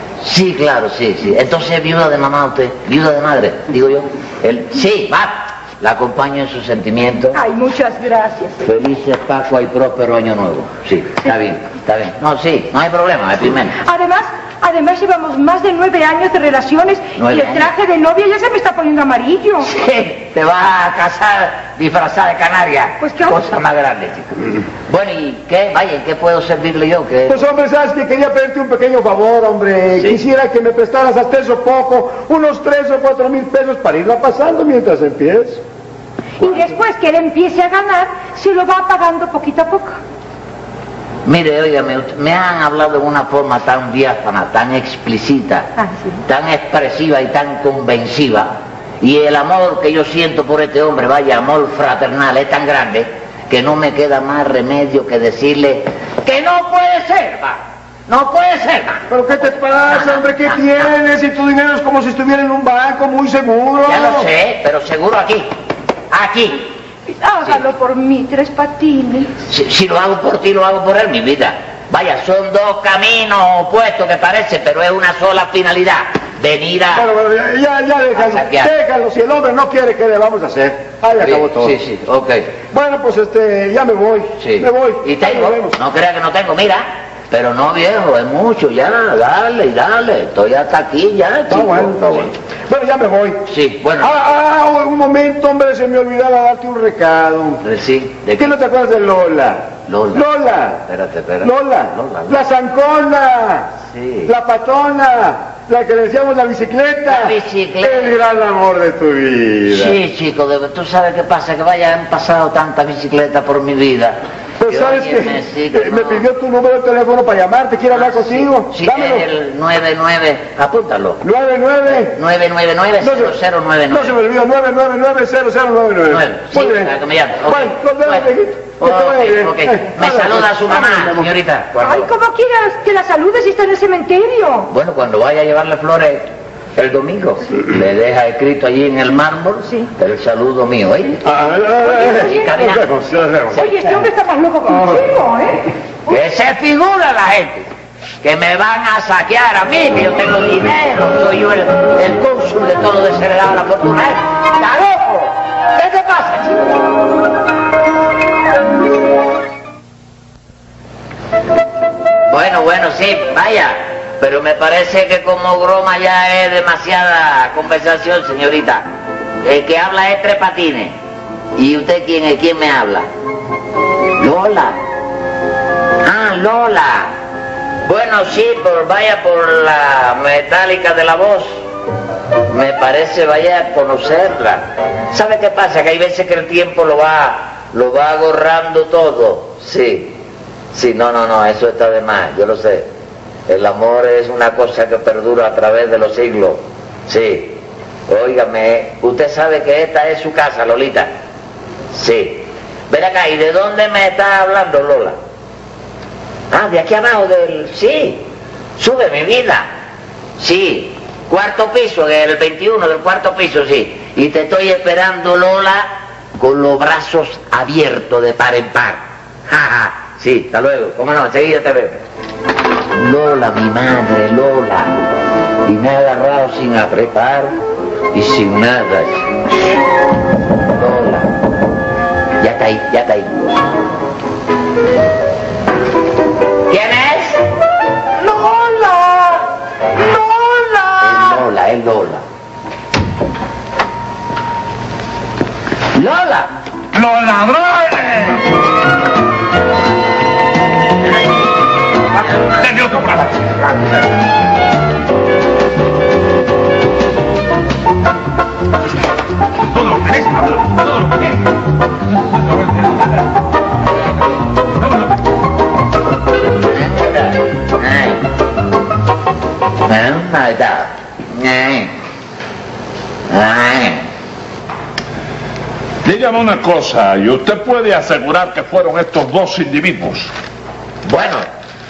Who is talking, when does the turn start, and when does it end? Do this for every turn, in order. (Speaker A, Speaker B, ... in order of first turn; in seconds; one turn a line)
Speaker A: 0.2-7.4
Speaker B: 7.3-8.6
Speaker A: 8.6-13.8
Speaker B: 13.8-19.7
Speaker A: 17.2-17.7
Speaker A: 19.6-27.4
Speaker B: 23.0-23.4
Speaker C: 27.3-35.6
Speaker B: 36.4-40.0
Speaker A: 41.2-45.7
Speaker B: 45.8-46.2
Speaker A: 46.3-60.9
Speaker C: 59.1-64.3
Speaker A: 63.9-65.5
Speaker A: 66.1-66.7
Speaker B: 67.1-69.3
Speaker A: 69.5-77.1
Speaker C: 76.9-81.8
Speaker A: 78.1-78.7
Speaker A: 81.2-82.5
Speaker C: 82.7-85.8
Speaker A: 84.4-92.3
Speaker C: 91.5-93.5
Speaker A: 93.5-94.2
Speaker C: 94.0-97.6
Speaker A: 97.6-98.6
Speaker C: 98.4-100.9
Speaker A: 99.9-100.3
Speaker A: 100.9-102.4
Speaker C: 101.4-103.7
Speaker A: 103.9-104.3
Speaker C: 104.3-110.0
Speaker A: 107.1-108.2
Speaker A: 109.7-116.2
Speaker C: 114.6-119.3
Speaker A: 117.9-121.2
Speaker C: 121.2-122.2
Speaker A: 121.9-124.2
Speaker C: 123.0-123.4
Speaker C: 123.9-132.0
Speaker A: 126.1-132.1
Speaker B: 131.8-134.7
Speaker A: 134.7-141.2
Speaker C: 141.2-143.9
Speaker B: 141.8-142.7
Speaker A: 141.9-142.9
Speaker B: 143.5-145.7
Speaker C: 144.7-145.1
Speaker A: 146.1-147.7
Speaker A: 148.2-156.8
Speaker A: 162.3-168.9
Speaker A: 169.4-170.9
Speaker A: 171.6-173.1
Speaker A: 174.2-174.8
Speaker A: 176.0-177.2
Speaker A: 177.8-181.6
Speaker A: 182.5-190.2
Speaker A: 190.7-192.9
Speaker A: 193.5-201.1
Speaker A: 201.9-205.2
Speaker A: 206.5-208.3
Speaker A: 208.8-209.7
Speaker A: 210.4-222.0
Speaker A: 222.9-225.1
Speaker A: 225.7-227.6
Speaker A: 228.1-229.3
Speaker A: 230.7-231.3
Speaker A: 232.4-233.6
Speaker A: 236.7-237.5
Speaker A: 238.5-239.3
Speaker A: 241.0-242.2
Speaker A: 245.9-246.5
Speaker D: 246.9-248.4
Speaker D: 252.6-253.2
Speaker E: 252.6-253.6
Speaker E: 259.7-261.4
Speaker E: 262.6-263.0
Speaker A: 266.6-268.2
Speaker A: 269.9-271.9
Speaker A: 273.3-274.1
Speaker D: 276.0-280.3
Speaker A: 281.1-281.5